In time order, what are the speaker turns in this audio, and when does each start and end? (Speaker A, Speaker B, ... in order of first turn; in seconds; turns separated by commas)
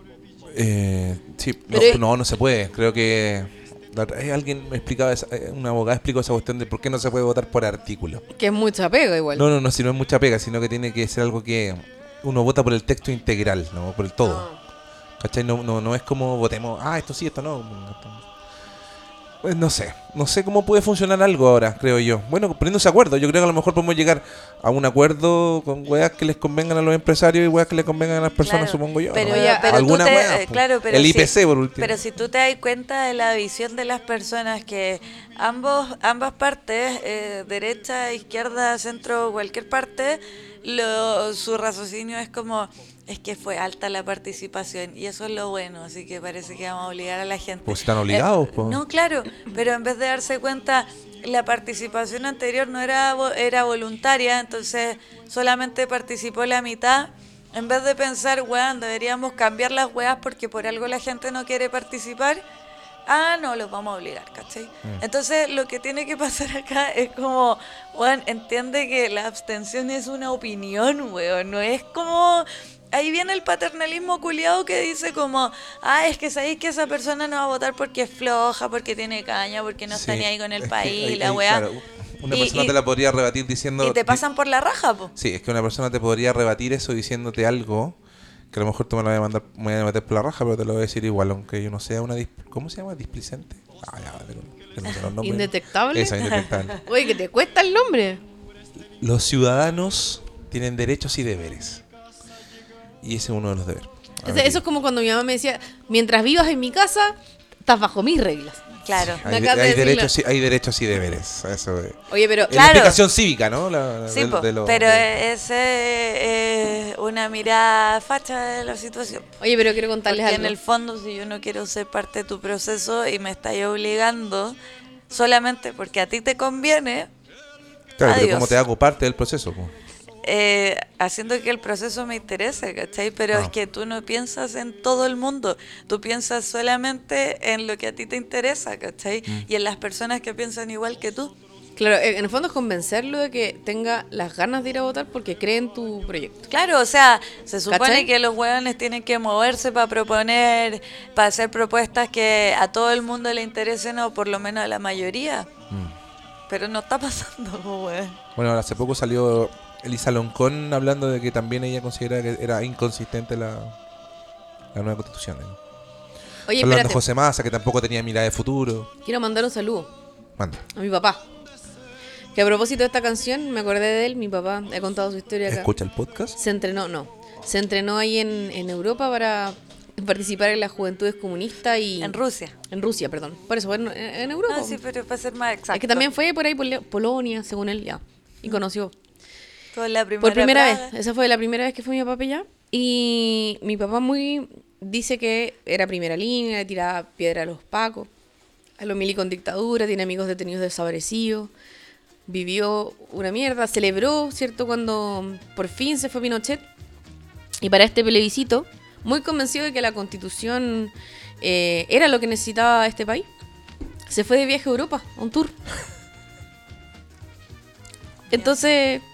Speaker A: 0.5-8.2, Speaker B: 1.7-2.0, Speaker B: 8.3-9.5, Speaker A: 9.3-14.4, Speaker B: 14.2-14.6, Speaker A: 15.2-18.2, Speaker A: 19.4-32.0, Speaker C: 28.4-62.4, Speaker B: 29.2-29.9, Speaker A: 47.6-48.8, Speaker C: 63.1-81.7, Speaker A: 79.9-84.2, Speaker C: 82.3-82.8, Speaker C: 83.8-85.1, Speaker A: 85.2-88.0, Speaker A: 88.5-96.8, Speaker B: 95.2-96.3, Speaker B: 96.8-98.2, Speaker A: 99.0-101.8, Speaker A: 103.0-104.6, Speaker B: 104.2-108.6, Speaker C: 108.8-109.2, Speaker A: 109.0-115.1, Speaker B: 109.2-110.1, Speaker B: 112.1-112.5, Speaker C: 112.5-113.0, Speaker C: 114.1-119.3, Speaker B: 119.4-120.5, Speaker C: 120.1-124.6, Speaker C: 125.1-127.1, Speaker A: 128.0-129.7, Speaker C: 128.0-128.6, Speaker C: 130.2-141.3, Speaker B: 141.8-146.4, Speaker C: 146.5-155.5, Speaker B: 147.7-148.1, Speaker A: 155.7-155.9, Speaker C: 156.5-158.2, Speaker A: 158.3-163.7, Speaker A: 164.7-165.6, Speaker B: 166.5-167.0, Speaker A: 166.6-168.9, Speaker B: 169.0-169.9, Speaker A: 170.4-170.6, Speaker B: 170.7-171.2, Speaker B: 172.3-175.7, Speaker A: 175.5-176.4, Speaker B: 176.4-182.2, Speaker C: 182.0-182.5, Speaker B: 182.7-184.8, Speaker C: 184.5-186.1, Speaker B: 185.7-188.9, Speaker C: 189.7-190.9, Speaker B: 190.2-198.1, Speaker B: 198.8-201.5, Speaker B: 202.3-206.6, Speaker B: 207.6-213.3, Speaker B: 214.1-215.6, Speaker B: 218.3-219.0